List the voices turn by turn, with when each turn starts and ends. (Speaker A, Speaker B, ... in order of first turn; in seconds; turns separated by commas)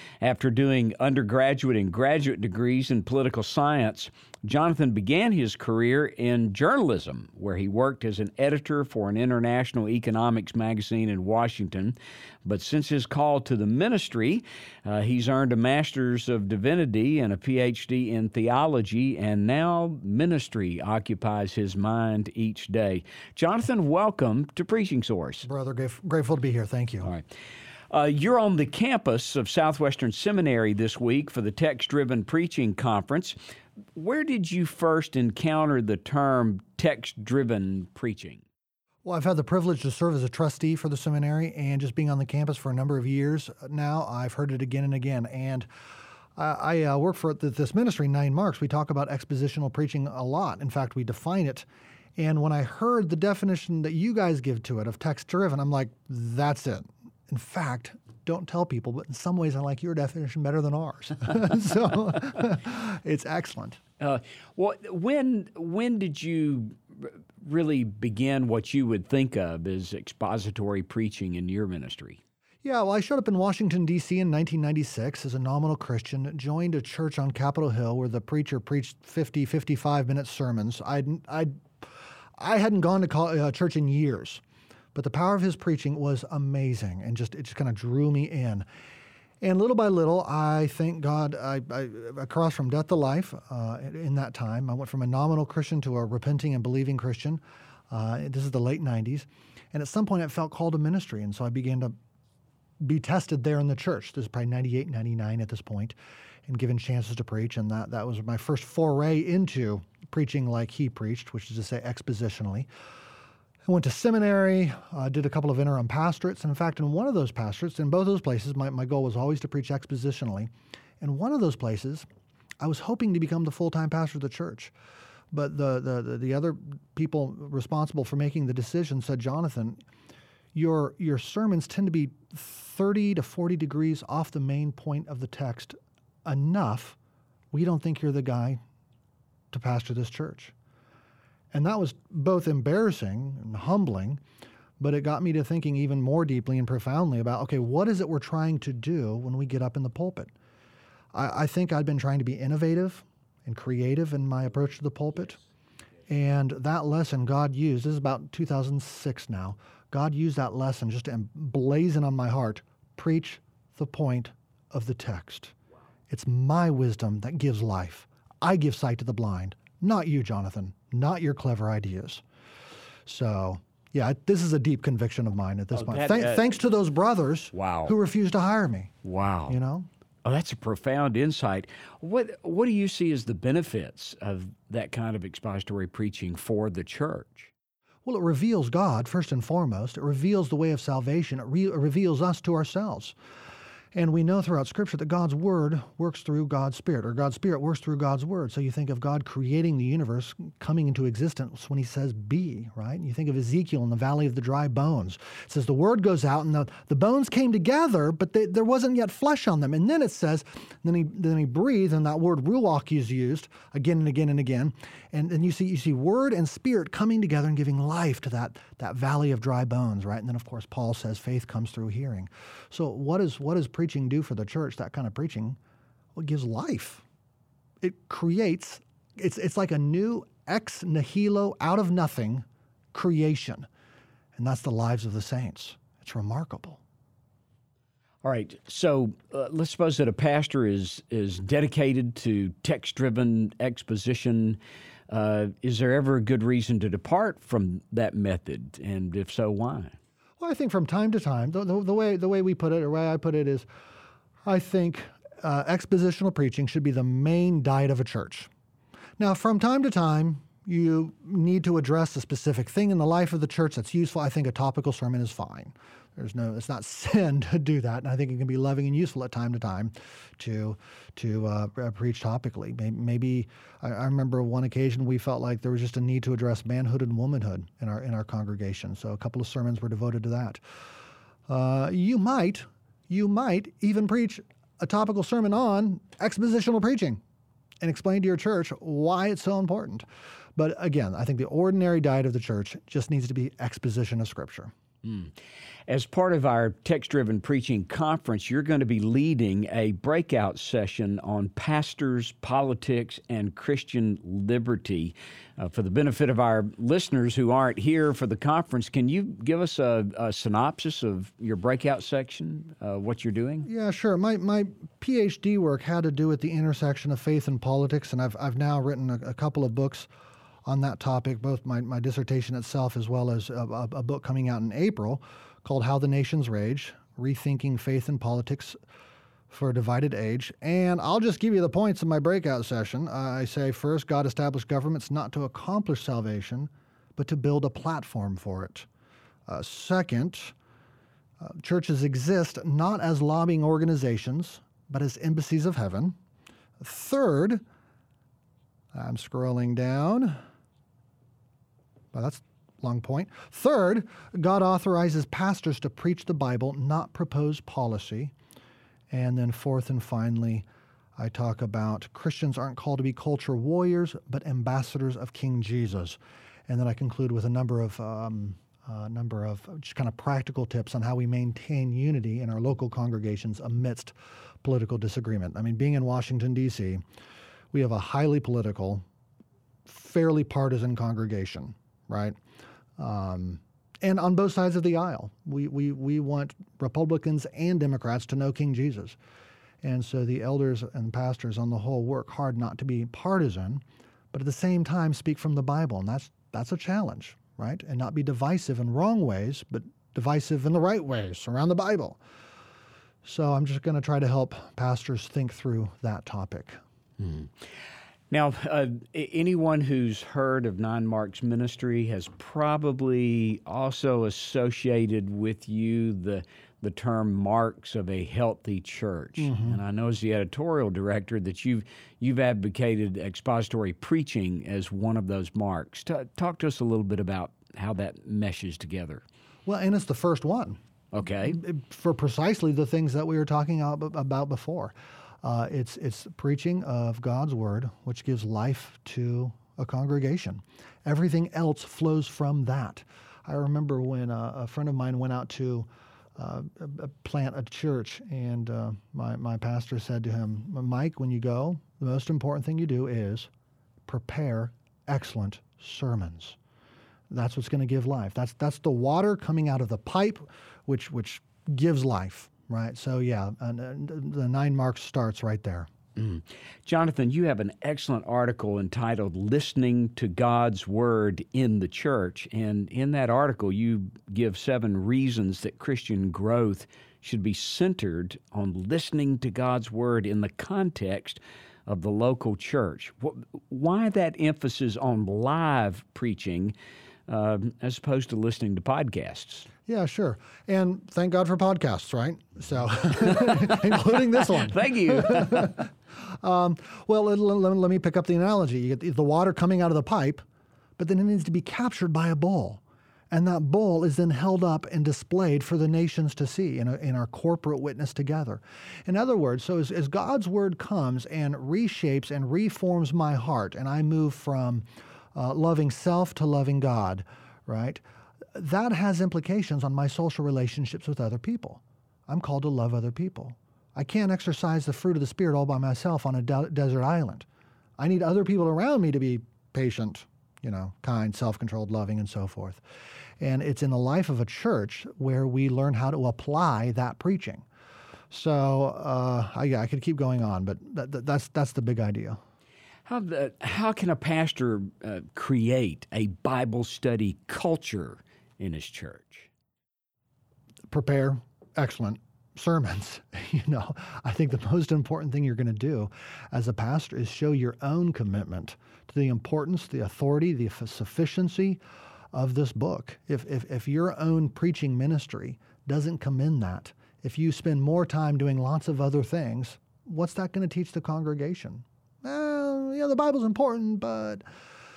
Speaker A: 0.2-25.5, Speaker B: 25.4-27.1, Speaker A: 27.9-33.4, Speaker A: 33.9-38.4, Speaker B: 39.0-45.7, Speaker B: 46.4-63.8, Speaker A: 64.0-72.2, Speaker B: 72.6-81.5, Speaker B: 82.4-84.4, Speaker B: 84.9-88.7, Speaker B: 89.4-101.9, Speaker B: 102.8-105.9, Speaker B: 106.5-112.7, Speaker B: 113.6-122.0, Speaker B: 122.6-124.7, Speaker B: 125.3-129.8, Speaker B: 130.5-137.0, Speaker B: 137.5-138.6, Speaker B: 139.5-140.5, Speaker B: 141.5-144.2, Speaker B: 144.8-150.3, Speaker B: 151.1-155.4, Speaker B: 156.1-165.5, Speaker B: 166.1-172.2, Speaker B: 173.1-178.9, Speaker A: 175.7-176.5, Speaker A: 177.5-177.9, Speaker A: 179.0-179.6, Speaker B: 179.5-179.9, Speaker A: 180.2-187.5, Speaker B: 188.0-193.1, Speaker B: 193.9-225.6, Speaker B: 226.1-227.0, Speaker B: 227.8-233.7, Speaker B: 234.3-236.8, Speaker A: 238.2-244.6, Speaker A: 245.1-249.9, Speaker B: 250.4-253.7, Speaker B: 254.4-258.5, Speaker B: 259.2-280.6, Speaker B: 281.5-287.2, Speaker B: 287.8-294.7, Speaker A: 295.0-295.3, Speaker A: 295.9-313.7, Speaker B: 313.6-320.1, Speaker B: 320.6-328.8, Speaker B: 329.5-338.9, Speaker B: 339.5-340.5, Speaker B: 341.4-346.1, Speaker B: 346.8-347.6, Speaker B: 348.9-350.4, Speaker B: 352.1-358.3, Speaker B: 359.1-360.6, Speaker B: 361.1-377.0, Speaker B: 377.7-379.0, Speaker B: 379.9-382.4, Speaker B: 383.0-389.2, Speaker B: 389.8-393.8, Speaker B: 394.3-402.2, Speaker B: 403.2-406.8, Speaker A: 407.2-407.5, Speaker A: 408.3-429.2, Speaker B: 419.4-419.8, Speaker B: 429.6-430.8, Speaker A: 431.1-431.6, Speaker B: 431.4-453.5, Speaker B: 454.1-456.6, Speaker B: 457.3-465.9, Speaker A: 466.1-486.7, Speaker A: 487.3-489.7, Speaker B: 489.9-500.4, Speaker A: 494.6-495.8, Speaker B: 501.0-518.0, Speaker B: 518.5-527.5, Speaker B: 528.0-532.8, Speaker B: 533.4-537.6, Speaker B: 538.3-542.4, Speaker A: 543.1-549.5, Speaker B: 550.9-561.8, Speaker B: 562.3-574.4